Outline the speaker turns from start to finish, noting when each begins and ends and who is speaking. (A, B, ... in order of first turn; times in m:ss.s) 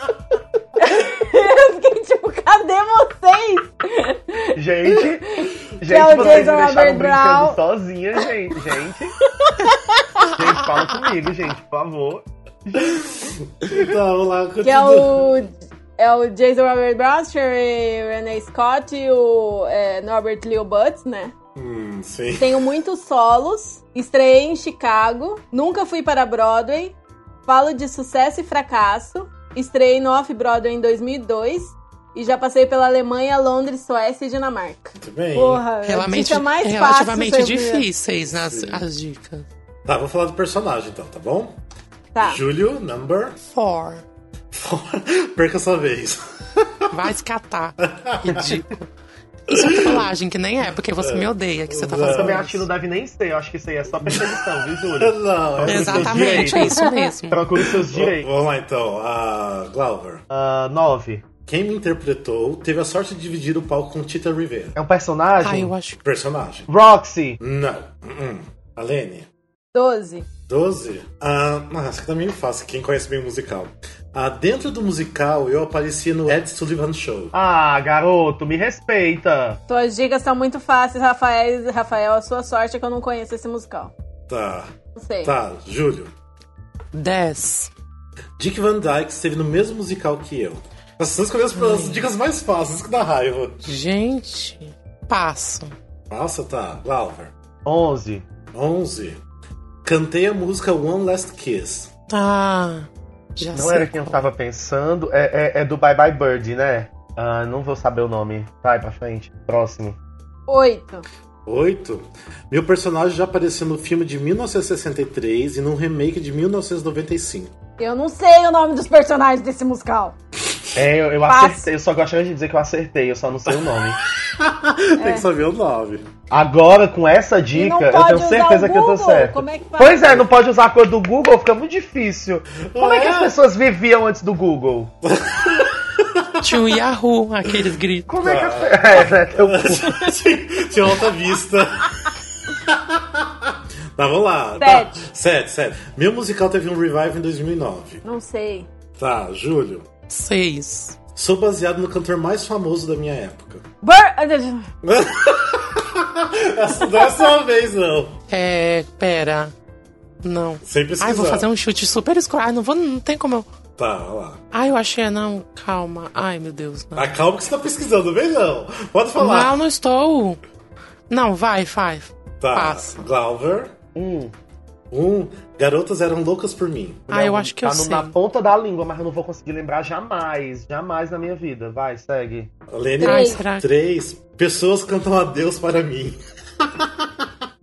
0:00.8-0:04.6 A
0:04.6-0:09.2 B
0:05.3-0:07.6 A
0:06.1-0:06.5 C
0:09.3-0:10.3 A
0:10.4-0:13.0 B
0:12.8-0:15.4 C
0:14.6-0:21.3 A
0:21.6-0:22.5 C
0:22.4-0:37.9 A
0:35.0-0:35.6 C
0:35.8-0:39.5 D
0:38.3-0:38.8 C
0:39.9-0:41.6 C
0:42.2-0:42.4 A
0:42.2-0:43.4 C
0:43.4-0:44.0 D
0:44.5-0:46.8 C
0:46.9-0:48.9 D
0:47.9-0:48.6 C
0:49.5-0:50.1 C
0:49.5-0:52.7 D
0:51.0-0:52.4 C
0:52.1-0:58.3 B
0:54.1-0:54.4 C
0:54.9-0:56.6 C
0:55.6-0:57.4 D
0:56.5-0:57.1 A
0:57.6-1:00.2 C
1:00.3-1:01.2 B
1:01.5-1:04.8 C
1:04.8-1:05.7 B
1:05.4-1:06.0 D
1:06.0-1:06.7 C
1:06.7-1:07.4 B
1:07.4-1:09.3 C
1:09.7-1:10.3 A
1:10.5-1:17.3 C
1:17.3-1:19.6 B
1:19.7-1:23.9 A
1:24.3-1:24.7 C
1:25.0-1:25.3 A
1:25.2-1:26.1 C
1:26.9-1:27.7 D
1:28.4-1:33.7 C
1:31.5-1:32.1 D
1:33.7-1:35.8 D
1:36.1-1:37.3 C
1:37.6-1:38.3 B
1:38.5-1:39.2 C
1:39.8-1:41.9 C
1:42.1-1:44.2 D
1:43.5-1:50.0 B
1:50.5-1:51.0 A
1:51.5-1:57.5 C
1:57.8-2:00.2 A
2:00.8-2:04.0 B
2:01.2-2:01.6 A
2:03.5-2:06.1 C
2:05.0-2:05.3 A
2:06.3-2:14.9 B
2:07.5-2:10.2 A
2:12.7-2:13.4 C
2:15.0-2:16.7 C
2:16.4-2:18.1 D
2:18.1-2:20.1 B
2:18.2-2:28.0 C
2:24.6-2:25.0 A
2:28.0-2:28.7 A
2:29.0-2:29.9 C
2:30.1-2:31.0 D
2:31.2-2:33.6 C
2:33.8-2:34.7 A
2:34.8-2:38.2 C
2:38.3-2:39.5 D
2:40.2-2:43.5 D
2:40.6-2:41.5 C
2:43.8-2:44.4 C
2:44.5-2:47.2 D
2:47.0-2:49.6 C
2:49.2-2:50.4 D
2:51.1-2:53.1 D
2:52.4-2:53.7 C
2:54.0-2:54.3 B
2:54.9-2:57.1 C
2:57.1-3:02.5 B
2:57.1-2:58.1 D
3:02.7-3:07.3 C
3:03.0-3:03.4 A
3:03.0-3:03.7 D